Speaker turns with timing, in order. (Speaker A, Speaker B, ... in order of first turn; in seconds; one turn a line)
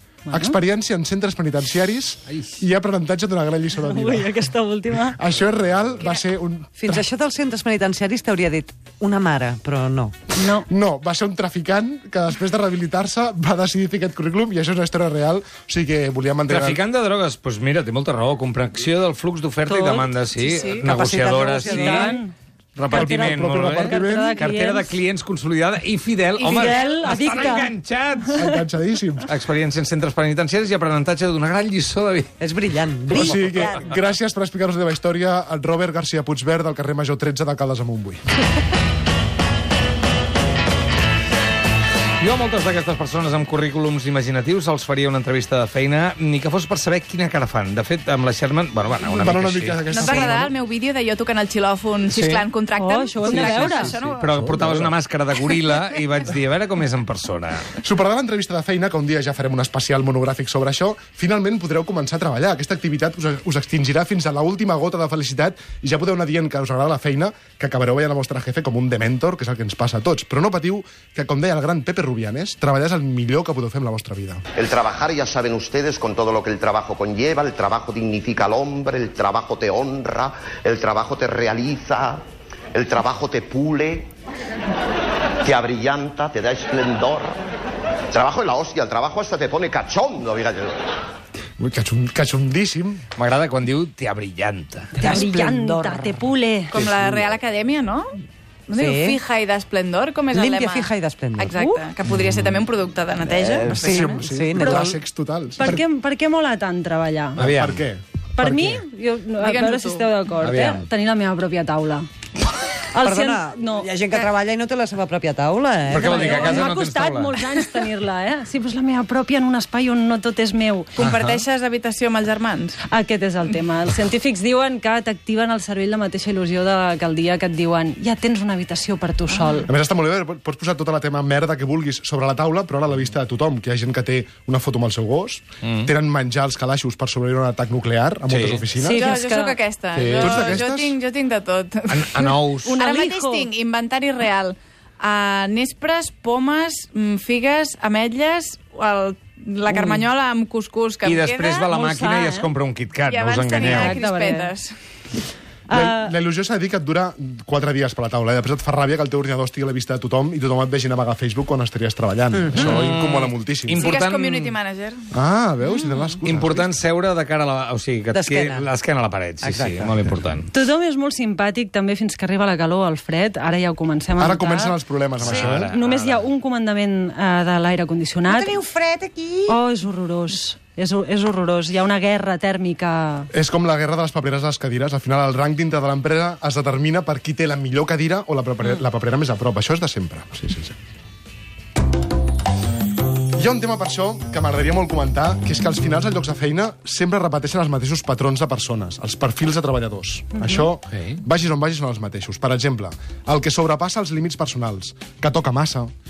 Speaker A: 0.2-0.6
Speaker B: 0.3-4.5
Speaker A: 3.8-5.2
Speaker B: 5.0-7.1
Speaker C: 6.0-6.2
Speaker D: 6.8-10.2
Speaker A: 10.3-10.7
Speaker B: 10.5-16.8
Speaker E: 16.5-22.1
Speaker A: 19.7-20.1
Speaker C: 20.3-20.9
Speaker D: 20.8-22.2
Speaker A: 21.6-22.3
Speaker E: 22.8-28.5
Speaker A: 22.9-24.9
Speaker B: 22.9-24.4
Speaker C: 26.4-26.9
Speaker A: 26.5-27.7
Speaker B: 28.3-29.3
Speaker E: 29.2-32.3
Speaker D: 32.4-33.8
Speaker B: 33.1-38.2
Speaker E: 42.2-50.3
Speaker B: 49.0-50.5
Speaker C: 49.9-54.3
Speaker E: 52.1-52.4
Speaker A: 52.8-54.0
Speaker E: 53.2-57.6
Speaker B: 54.0-54.9
Speaker B: 57.8-74.4
Speaker F: 74.6-84.1
Speaker F: 85.4-87.4
Speaker F: 88.1-90.9
Speaker B: 91.6-93.0
Speaker E: 93.2-95.3
Speaker A: 95.0-96.8
Speaker D: 95.0-96.0
Speaker C: 96.7-98.1
Speaker B: 96.8-97.3
Speaker C: 98.7-104.2
Speaker D: 98.8-99.2
Speaker D: 100.3-101.5
Speaker A: 101.6-101.8
Speaker D: 103.4-104.9
Speaker B: 103.8-105.8
Speaker A: 104.5-104.8
Speaker A: 105.6-107.4
Speaker B: 107.3-108.8
Speaker E: 107.4-107.8
Speaker A: 108.4-112.1
Speaker C: 109.4-110.2
Speaker E: 110.4-110.8
Speaker A: 112.9-113.9
Speaker D: 113.0-116.6
Speaker E: 115.9-117.3
Speaker A: 115.9-120.9
Speaker C: 120.9-122.8
Speaker E: 121.0-121.4
Speaker A: 122.9-129.7
Speaker B: 129.7-139.0
Speaker E: 135.6-135.9
Speaker E: 138.3-138.7
Speaker A: 138.8-139.6
Speaker C: 138.9-151.7
Speaker E: 139.9-140.6
Speaker B: 140.2-141.0
Speaker E: 141.9-142.9
Speaker A: 142.6-143.5
Speaker E: 151.0-154.0
Speaker A: 151.7-152.5
Speaker C: 153.1-154.7
Speaker A: 153.6-154.5
Speaker A: 155.7-156.1
Speaker B: 155.7-163.9
Speaker D: 162.4-162.6
Speaker E: 162.5-164.6
Speaker C: 163.8-165.0
Speaker B: 165.1-166.7
Speaker E: 166.2-170.5
Speaker D: 168.1-168.7
Speaker D: 169.4-169.9
Speaker A: 170.5-174.8
Speaker B: 174.2-175.7
Speaker E: 175.2-176.2
Speaker A: 175.7-178.6
Speaker D: 178.3-179.6
Speaker A: 179.5-183.3
Speaker B: 183.3-190.7
Speaker B: 193.3-205.9
Speaker E: 200.9-201.2